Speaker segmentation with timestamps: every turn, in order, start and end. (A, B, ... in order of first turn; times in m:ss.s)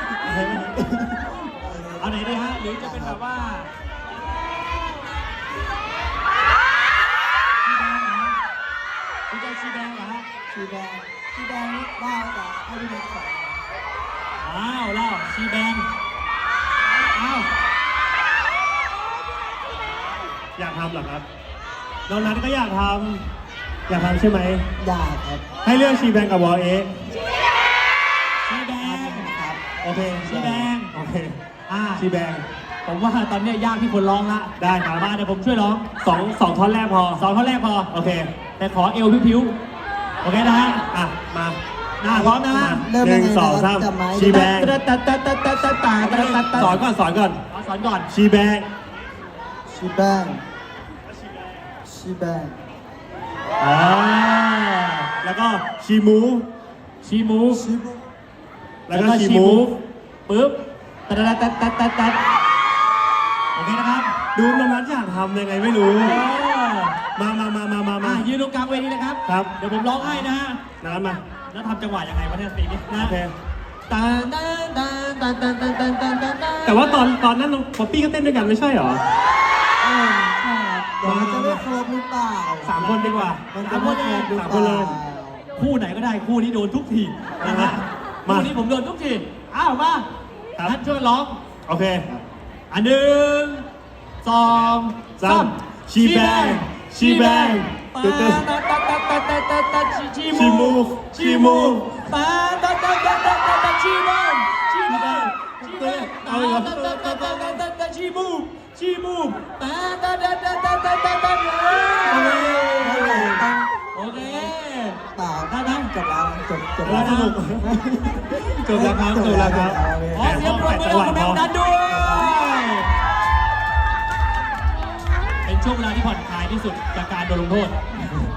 0:00.2-0:00.8 A
0:00.8-0:02.1 B
0:02.0-0:03.7 C
0:02.8-0:03.2 B
0:07.6-0:08.4 C
0:09.3-0:10.3 C
0:10.5-0:13.6 B
0:14.4-0:15.9 C
0:16.8-0:17.5 C
0:20.6-0:21.2 A
0:22.1-0:23.2 A
0:23.9-0:24.6 A
0:24.8-0:25.4 B
0:25.6-0:26.9 A
0:28.4-0:29.3 C
0:28.8-0:29.6 B
0:29.8-0:31.4 A
0:30.2-0:30.9 C
0:31.7-0:32.0 C
0:31.9-0:32.4 A
0:32.8-0:35.9 C
0:34.6-0:35.1 A
0:36.0-0:37.2 A
0:37.2-0:37.9 C
0:37.9-0:38.3 A
0:38.6-0:39.6 C
0:40.2-0:40.8 C
0:40.9-0:44.8 A
0:42.0-0:42.8 C
0:42.5-0:44.6 B
0:44.3-0:46.8 C
0:46.0-0:47.4 A
0:47.5-0:48.1 C
0:48.1-0:48.7 A
0:49.7-0:50.4 B
0:51.8-0:52.6 B
0:53.6-0:55.1 C
0:55.2-0:56.5 A
0:57.0-0:57.6 C
0:57.5-0:58.0 B
0:58.9-0:59.7 A
0:58.9-1:02.2 C
1:03.5-1:04.1 C
1:04.3-1:06.2 A
1:06.0-1:07.0 C
1:07.1-1:08.2 A
1:08.0-1:10.6 C
1:09.2-1:09.5 A
1:10.0-1:10.2 B
1:10.8-1:11.2 A
1:11.5-1:13.2 C
1:12.9-1:13.3 A
1:13.9-1:16.9 C
1:16.6-1:19.0 A
1:19.8-1:22.8 B
1:21.0-1:21.6 A
1:22.6-1:24.4 C
1:22.7-1:23.4 A
1:23.5-1:25.4 B
1:24.3-1:25.0 A
1:25.6-1:30.0 C
1:27.4-1:28.5 A
1:30.6-1:31.4 C
1:31.6-1:32.2 A
1:32.7-1:33.6 C
1:34.2-1:53.2 C
1:35.2-1:38.5 A
1:40.3-1:41.9 A
1:44.8-1:47.6 A
1:52.1-1:53.4 A
1:52.2-1:54.5 B
1:53.9-1:55.9 C
1:55.1-2:00.4 B
1:56.8-1:57.7 A
1:56.8-1:57.3 C
1:58.4-2:01.4 A
2:00.1-2:02.9 C
2:01.9-2:02.3 B
2:05.4-2:08.2 C